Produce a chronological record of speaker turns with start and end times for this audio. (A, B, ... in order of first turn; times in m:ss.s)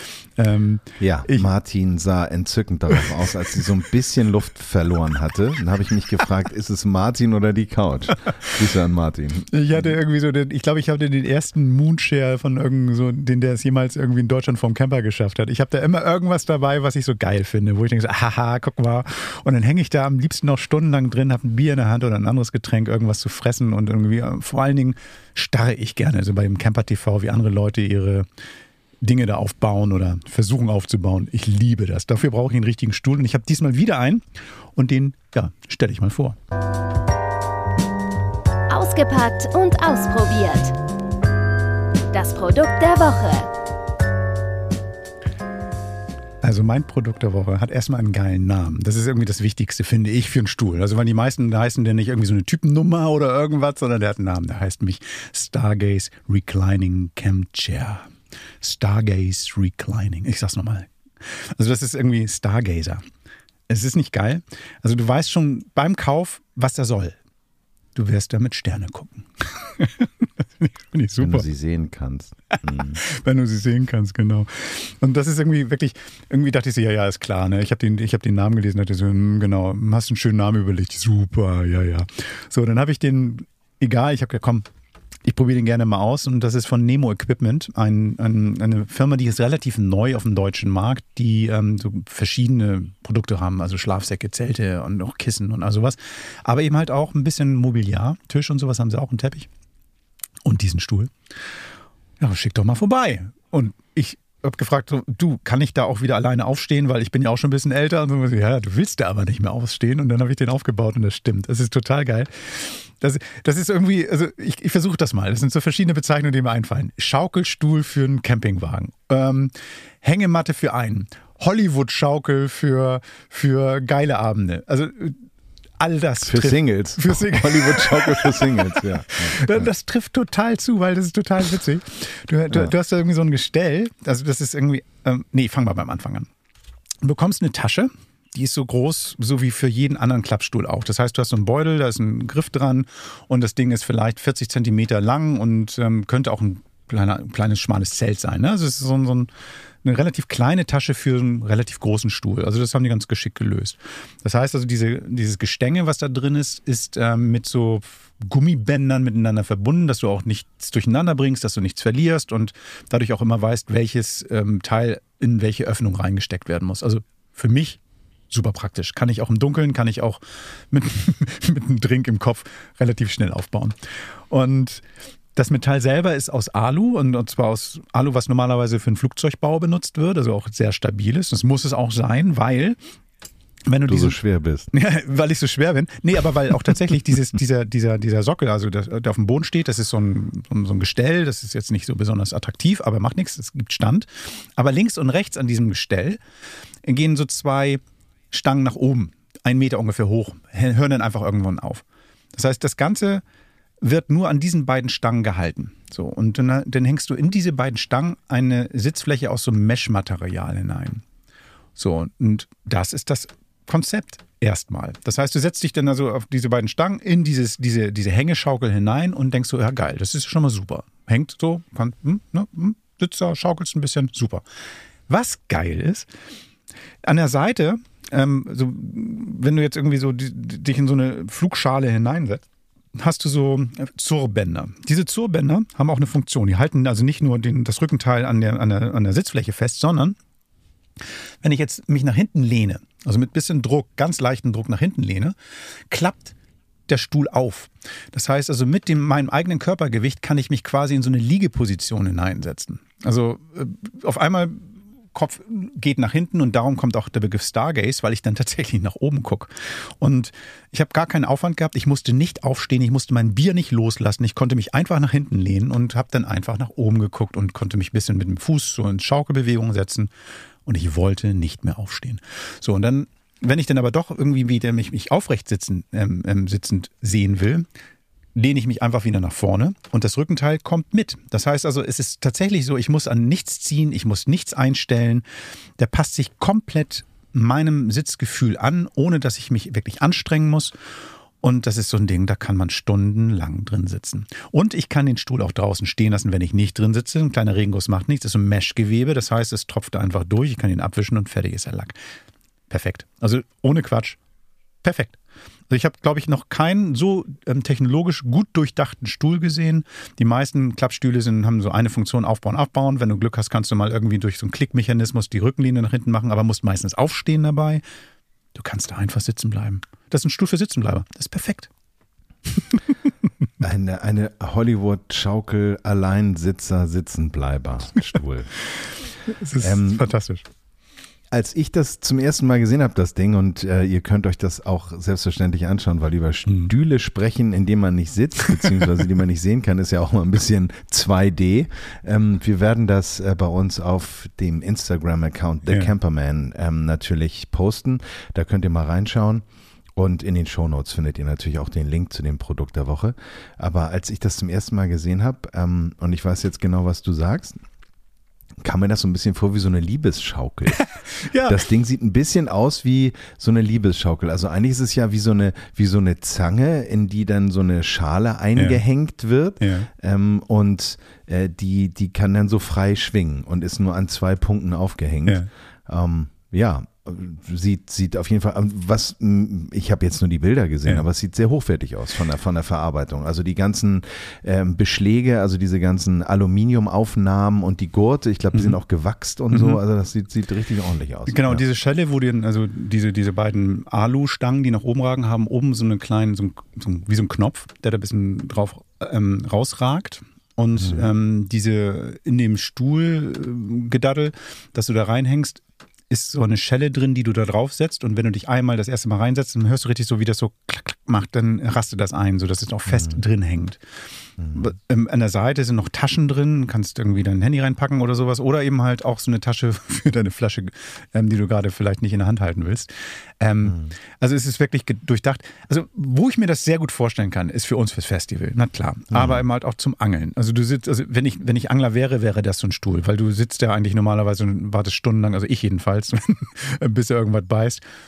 0:00.4-0:01.5 A
0:01.0-0:09.9 B
0:09.5-0:28.2 A
0:29.0-0:34.2 A
0:34.7-0:36.4 A
0:38.7-0:40.8 C
0:42.1-0:43.5 C
0:46.4-0:58.1 A
0:58.6-1:03.0 A
1:03.7-1:07.2 A
1:07.9-1:10.1 A
1:10.6-1:11.4 A
1:11.2-1:13.0 B
1:12.5-1:24.6 A
1:25.2-1:39.5 A
1:40.4-1:41.1 A
1:42.2-2:05.2 A
2:05.8-2:08.8 A
2:06.2-2:09.7 B
2:09.3-2:16.3 A
2:17.0-2:29.3 A
2:29.8-2:47.8 A
2:48.3-2:53.7 A
2:54.3-2:54.8 A
2:55.3-3:02.8 A
3:03.7-3:04.2 A
3:03.8-3:04.7 B
3:04.7-3:16.2 A
3:16.8-3:21.8 A
3:22.3-3:23.2 A
3:23.8-3:31.0 A
3:31.8-3:44.4 A
3:45.1-3:46.1 A
3:47.0-3:52.4 A
3:52.9-4:00.2 A
4:01.4-4:05.3 A
4:05.9-4:06.3 A
4:06.9-4:30.1 A
4:30.6-4:37.6 A
4:38.3-4:45.2 A
4:45.8-4:50.7 A
4:51.4-5:02.0 A
5:02.7-5:04.2 A
5:04.8-5:05.2 A
5:05.7-5:17.8 A
5:18.5-5:21.7 A
5:23.6-5:28.6 B
5:29.4-5:30.4 A
5:29.6-5:30.0 B
5:31.3-5:49.4 B
5:50.0-5:57.6 B
5:58.6-6:00.8 B
6:00.8-6:01.6 A
6:01.4-6:31.6 B
6:08.6-6:08.8 A
6:09.6-6:09.9 A
6:29.5-6:29.8 A
6:31.3-6:53.8 A
6:40.8-6:41.1 B
6:52.9-6:53.2 B
6:54.5-7:02.9 A
7:03.4-7:17.8 A
7:03.6-7:03.9 B
7:09.1-7:09.4 B